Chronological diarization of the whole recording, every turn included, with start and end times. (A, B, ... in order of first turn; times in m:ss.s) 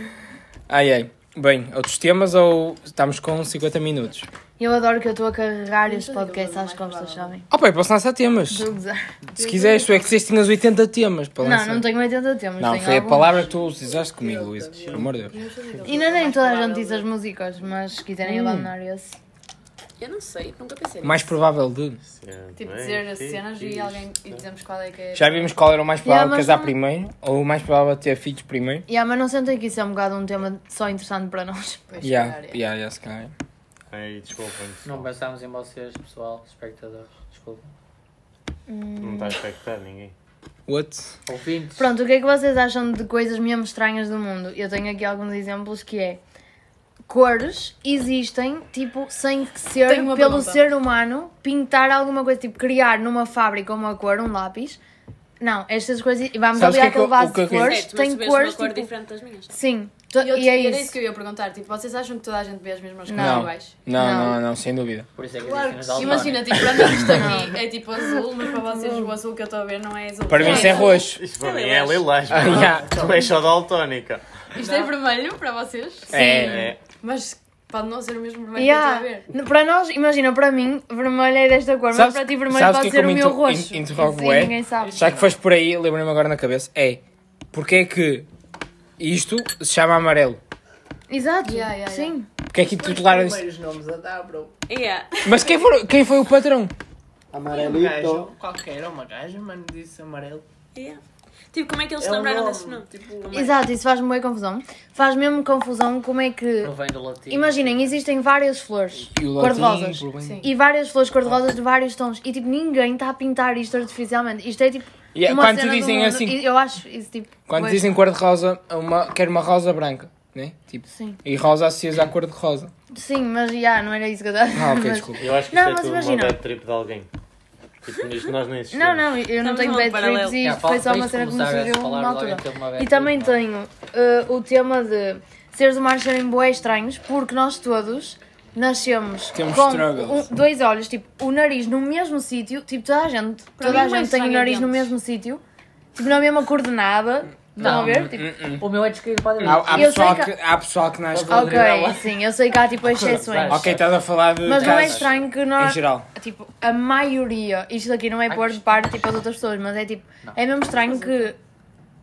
0:00.7-0:04.3 A
0:04.6-0:07.4 B
0:05.8-0:07.4 C
0:07.5-0:08.7 A
0:08.5-0:09.1 B
0:09.4-0:11.9 A
0:09.4-0:10.0 C
0:11.4-0:13.5 B
0:12.6-0:15.3 A
0:14.2-0:17.1 C
0:14.8-0:15.2 D
0:15.8-0:19.2 B
0:18.2-0:18.7 A
0:20.0-0:21.3 E
0:21.0-0:22.0 A
0:22.0-0:24.4 D
0:22.6-0:25.5 C
0:25.1-0:28.8 A
0:26.0-0:26.7 B
0:28.9-0:31.8 B
0:31.9-0:32.6 C
0:32.0-0:33.3 A
0:33.9-0:35.1 D
0:34.8-0:37.7 F
0:38.7-0:39.4 B
0:39.0-0:40.1 D
0:40.7-0:41.1 A
0:41.3-0:41.9 F
0:41.8-0:46.2 B
0:47.1-0:54.8 B
0:49.8-0:50.6 C
0:55.4-0:58.9 B
0:56.5-0:57.8 A
0:57.5-0:59.5 E
0:59.5-1:01.0 B
1:00.2-1:03.8 C
1:03.1-1:04.4 B
1:03.1-1:05.1 A
1:05.2-1:06.9 F
1:05.4-1:06.4 G
1:05.8-1:11.1 C
1:07.1-1:07.5 B
1:10.3-1:11.2 A
1:10.4-1:10.7 B
1:10.9-1:14.2 D
1:11.3-1:12.6 E
1:12.3-1:12.9 A
1:12.5-1:13.3 G
1:14.6-1:19.3 C
1:14.6-1:15.0 G
1:16.1-1:16.7 A
1:16.1-1:16.7 B
1:16.4-1:16.8 D
1:18.6-1:25.0 B
1:21.9-1:27.0 A
1:24.8-1:25.3 G
1:27.5-1:28.3 A
1:29.0-1:30.4 A
1:31.1-1:32.2 B
1:31.4-1:32.2 C
1:32.5-1:33.4 A
1:32.6-1:34.5 G
1:34.7-1:35.4 E
1:35.2-1:36.7 A
1:37.3-1:38.2 D
1:37.4-1:40.4 G
1:40.7-1:41.0 E
1:41.5-1:43.6 E
1:42.0-1:43.6 G
1:43.3-1:46.7 B
1:46.6-1:48.0 F
1:47.3-1:57.9 B
1:49.0-1:50.4 A
1:50.1-1:50.5 C
1:55.1-1:56.4 A
1:57.5-2:02.7 A
2:00.9-2:01.2 B
2:02.9-2:06.4 B
2:04.5-2:05.2 A
2:05.2-2:07.1 D
2:07.8-2:09.2 D
2:08.7-2:25.4 B
2:09.3-2:10.4 E
2:10.4-2:13.4 F
2:19.3-2:20.3 A
2:23.6-2:24.9 C
2:26.0-2:28.3 B
2:27.6-2:30.2 F
2:27.6-2:28.7 A
2:29.4-2:31.6 A
2:29.5-2:30.3 B
2:31.1-2:32.2 F
2:31.3-2:33.7 B
2:32.9-2:34.0 F
2:33.4-2:36.1 A
2:34.4-2:41.4 B
2:34.5-2:35.1 F
2:38.3-2:39.0 F